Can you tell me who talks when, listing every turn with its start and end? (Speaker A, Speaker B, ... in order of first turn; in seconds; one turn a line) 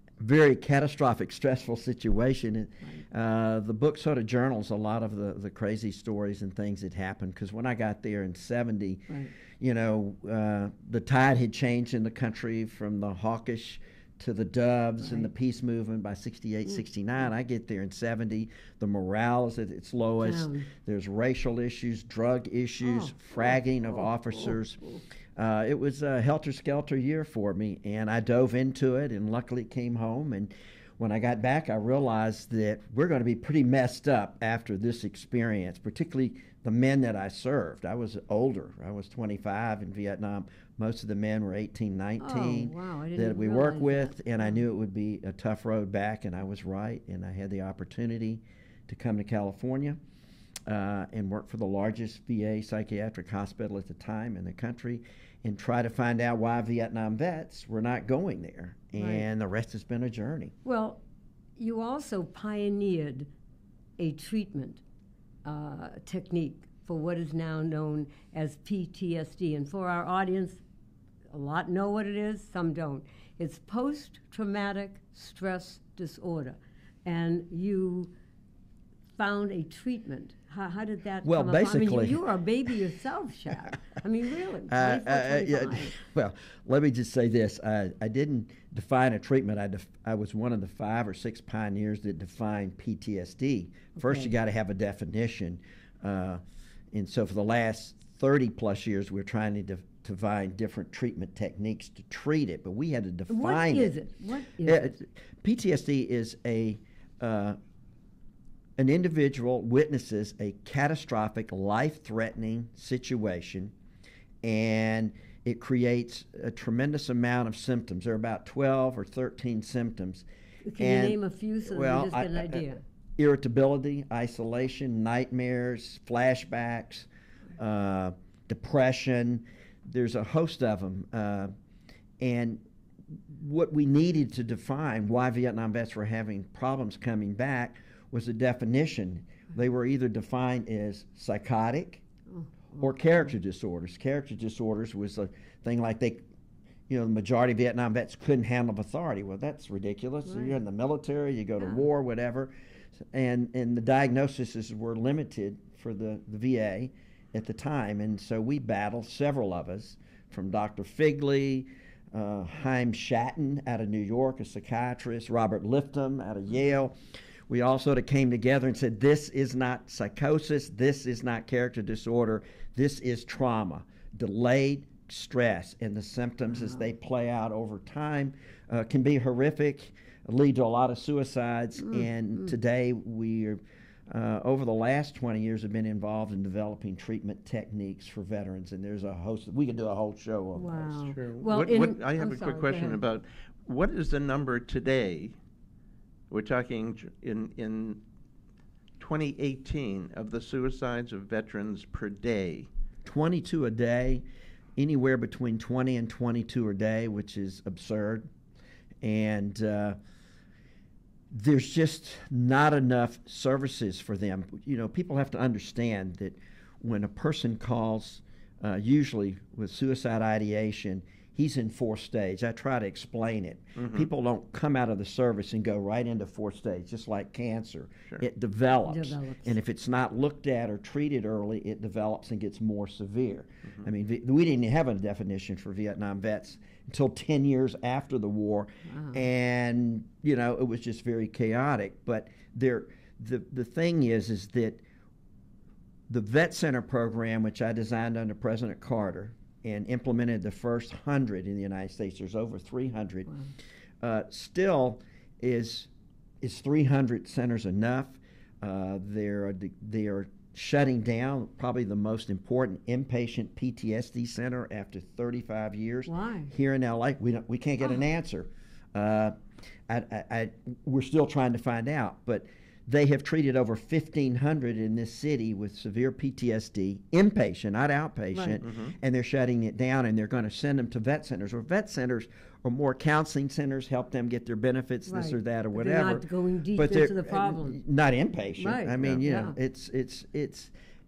Speaker A: 0.2-24.8
Speaker B: 15.0-15.3
Speaker B: 20.2-20.7
Speaker B: 22.8-23.2
Speaker B: 23.9-25.0
Speaker A: 25.4-50.0
Speaker B: 42.2-44.6
Speaker A: 50.7-60.5
Speaker B: 59.0-59.2
Speaker B: 60.6-61.0
Speaker B: 61.6-63.3
Speaker B: 64.0-64.8
Speaker B: 65.4-70.6
Speaker B: 71.3-78.1
Speaker B: 79.2-86.0
Speaker A: 81.2-82.2
Speaker A: 84.7-104.0
Speaker B: 94.0-94.3
Speaker B: 103.3-104.9
Speaker A: 104.6-107.6
Speaker A: 108.8-113.7
Speaker A: 114.4-120.2
Speaker B: 120.6-122.8
Speaker A: 120.8-131.5
Speaker A: 132.2-142.0
Speaker B: 142.3-142.9
Speaker A: 142.8-146.2
Speaker A: 146.9-191.0
Speaker B: 150.3-150.6
Speaker B: 176.5-176.8
Speaker B: 181.8-182.5
Speaker B: 190.5-193.0
Speaker C: 191.1-195.4
Speaker C: 196.3-198.0
Speaker C: 199.0-202.7
Speaker A: 203.0-204.2
Speaker A: 204.8-208.3
Speaker A: 209.0-210.0
Speaker A: 211.3-244.8
Speaker C: 223.8-224.1
Speaker B: 228.9-229.6
Speaker B: 238.9-239.2
Speaker A: 246.1-253.3
Speaker A: 254.0-255.9
Speaker A: 256.4-290.7
Speaker B: 266.1-266.5
Speaker B: 278.3-278.6
Speaker C: 278.6-278.9
Speaker B: 285.1-287.8
Speaker B: 288.6-289.5